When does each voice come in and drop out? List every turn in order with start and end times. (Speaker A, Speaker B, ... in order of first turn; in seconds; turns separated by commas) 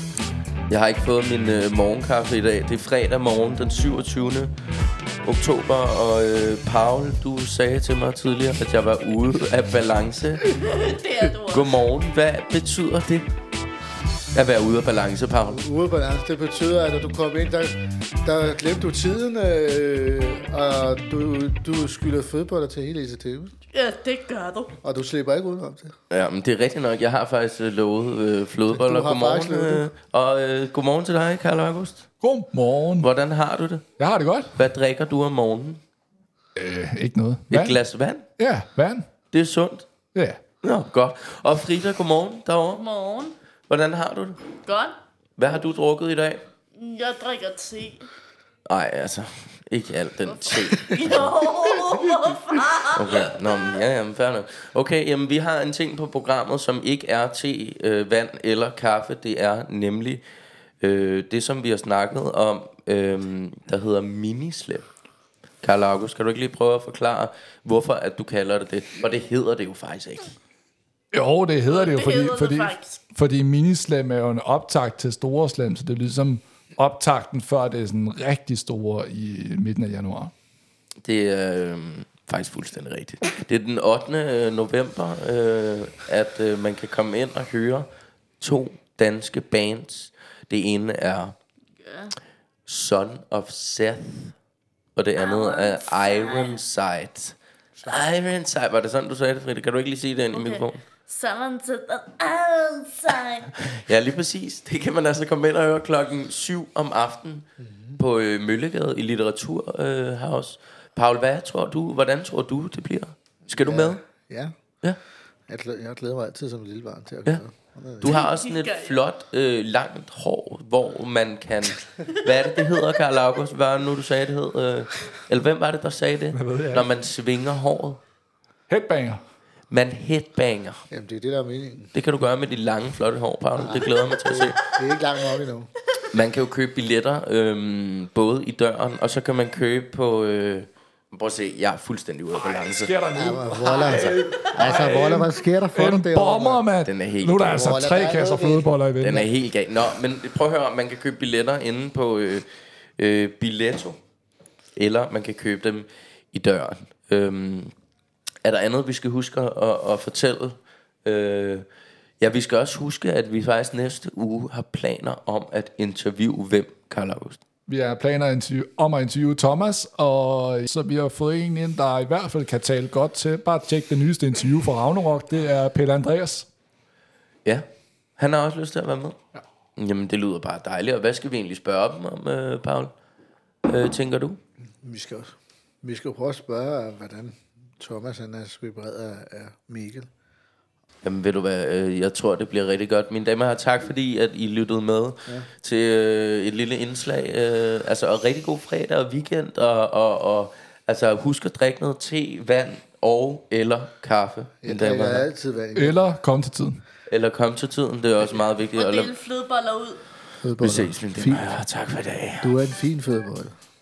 Speaker A: 0.7-4.5, Speaker A: 5.2-10.5, Speaker B: 10.5-11.7, Speaker A: 11.4-13.3, Speaker A: 14.3-15.6, Speaker C: 15.5-23.5, Speaker B: 23.7-24.7, Speaker C: 24.8-25.9, Speaker A: 26.1-32.0, Speaker C: 28.7-29.9, Speaker D: 32.2-33.1, Speaker A: 33.0-33.8, Speaker D: 34.0-34.5, Speaker A: 34.5-35.8, Speaker D: 36.6-37.8, Speaker A: 37.5-38.2, Speaker D: 38.4-39.0, Speaker A: 39.3-39.9, Speaker A: 40.6-42.8, Speaker B: 42.7-43.3, Speaker A: 43.7-44.5, Speaker B: 44.6-44.9, Speaker A: 45.4-46.4, Speaker B: 46.8-48.1, Speaker A: 48.7-51.4, Speaker B: 50.2-53.4, Speaker A: 52.9-60.2, Speaker A: 60.8-64.8, Speaker A: 65.6-70.3, Speaker D: 71.1-80.3, Speaker B: 71.7-73.0, Speaker A: 81.0-87.9, Speaker A: 88.4-91.3, Speaker B: 91.8-92.1, Speaker A: 92.7-94.3, Speaker A: 94.9-100.8, Speaker B: 95.2-96.5, Speaker B: 100.3-103.5, Speaker A: 103.5-107.5, Speaker C: 107.6-108.0, Speaker A: 108.0-114.0, Speaker C: 113.5-114.5, Speaker C: 115.5-118.2, Speaker A: 118.0-128.0, Speaker B: 118.0-118.9, Speaker D: 126.3-126.8, Speaker D: 128.7-129.2, Speaker A: 129.7-130.8, Speaker C: 130.9-131.9, Speaker A: 131.9-134.6, Speaker C: 133.6-133.9, Speaker C: 134.5-135.7, Speaker A: 136.1-142.9, Speaker D: 142.3-149.3, Speaker C: 143.1-146.6, Speaker A: 146.8-147.8, Speaker C: 147.4-148.7, Speaker A: 149.0-154.0, Speaker A: 154.8-157.7, Speaker A: 158.4-161.6, Speaker A: 162.2-167.4, Speaker D: 167.7-176.5, Speaker A: 178.2-179.2, Speaker A: 179.8-182.9, Speaker A: 183.6-184.4, Speaker C: 184.8-185.3, Speaker C: 185.8-190.1, Speaker A: 191.0-205.2, Speaker C: 204.6-206.0, Speaker D: 205.7-206.8, Speaker A: 207.1-209.1, Speaker B: 208.8-210.0, Speaker C: 210.4-211.5, Speaker A: 210.6-212.6, Speaker C: 212.4-213.5